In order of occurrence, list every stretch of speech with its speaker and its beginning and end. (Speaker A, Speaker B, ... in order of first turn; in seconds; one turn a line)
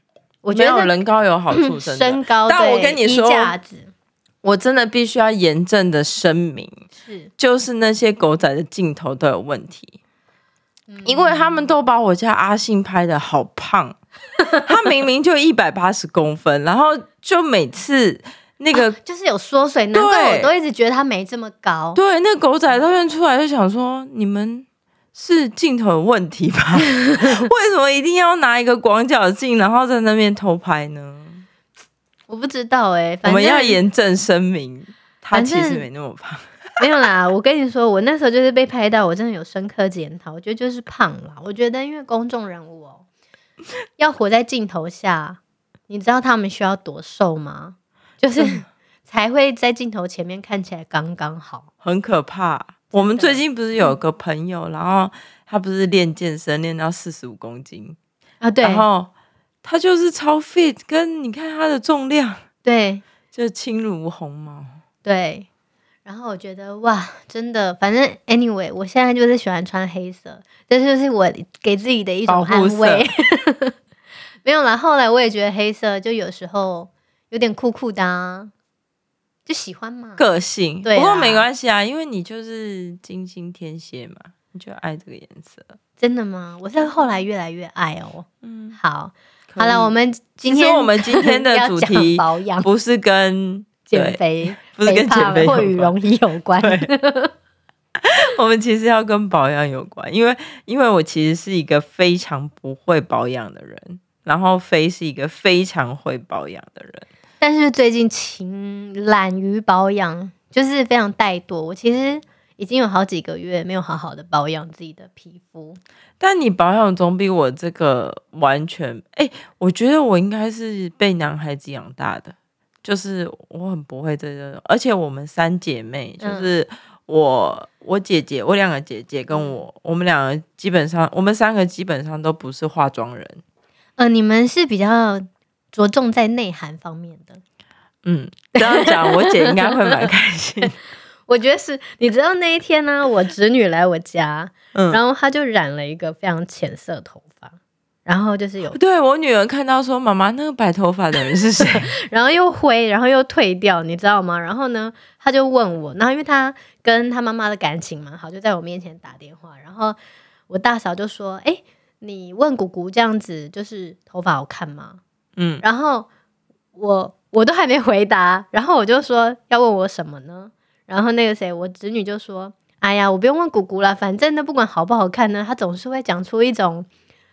Speaker A: 0.4-0.9
Speaker B: 0.5-3.5
Speaker A: 1.5-3.9
Speaker B: 4.4-6.8
Speaker A: 6.9-7.3
Speaker B: 7.4-10.0
Speaker A: 10.9-11.7
Speaker B: 11.0-14.0
Speaker B: 14.6-19.0
Speaker A: 18.7-22.0
Speaker B: 19.9-20.5
Speaker B: 21.9-31.4
Speaker A: 26.9-27.5
Speaker A: 32.3-33.8
Speaker B: 33.2-36.5
Speaker A: 35.3-35.9
Speaker A: 36.8-43.0
Speaker A: 44.0-51.7
Speaker B: 48.4-48.6
Speaker B: 51.8-58.0
Speaker A: 52.9-53.4
Speaker A: 58.4-58.9
Speaker B: 58.6-59.1
Speaker B: 59.6-62.4
Speaker A: 62.6-63.0
Speaker B: 63.3-64.8
Speaker A: 65.0-65.5
Speaker A: 66.0-73.7
Speaker B: 72.3-73.1
Speaker A: 74.4-78.5
Speaker A: 79.5-80.2
Speaker B: 80.2-85.8
Speaker A: 80.8-81.5
Speaker A: 86.0-92.7
Speaker B: 88.4-88.8
Speaker B: 89.5-95.9
Speaker A: 93.9-97.3
Speaker B: 96.6-96.9
Speaker B: 98.0-107.1
Speaker A: 107.4-115.8
Speaker B: 116.2-133.4
Speaker A: 126.2-126.5
Speaker A: 129.3-129.6
Speaker A: 134.0-137.4
Speaker B: 138.0-140.8
Speaker A: 138.5-140.1
Speaker A: 141.3-148.8
Speaker B: 144.7-145.0
Speaker B: 148.7-151.9
Speaker A: 151.6-160.0
Speaker A: 160.5-165.0
Speaker B: 165.3-165.6
Speaker A: 165.6-166.1
Speaker A: 166.7-176.9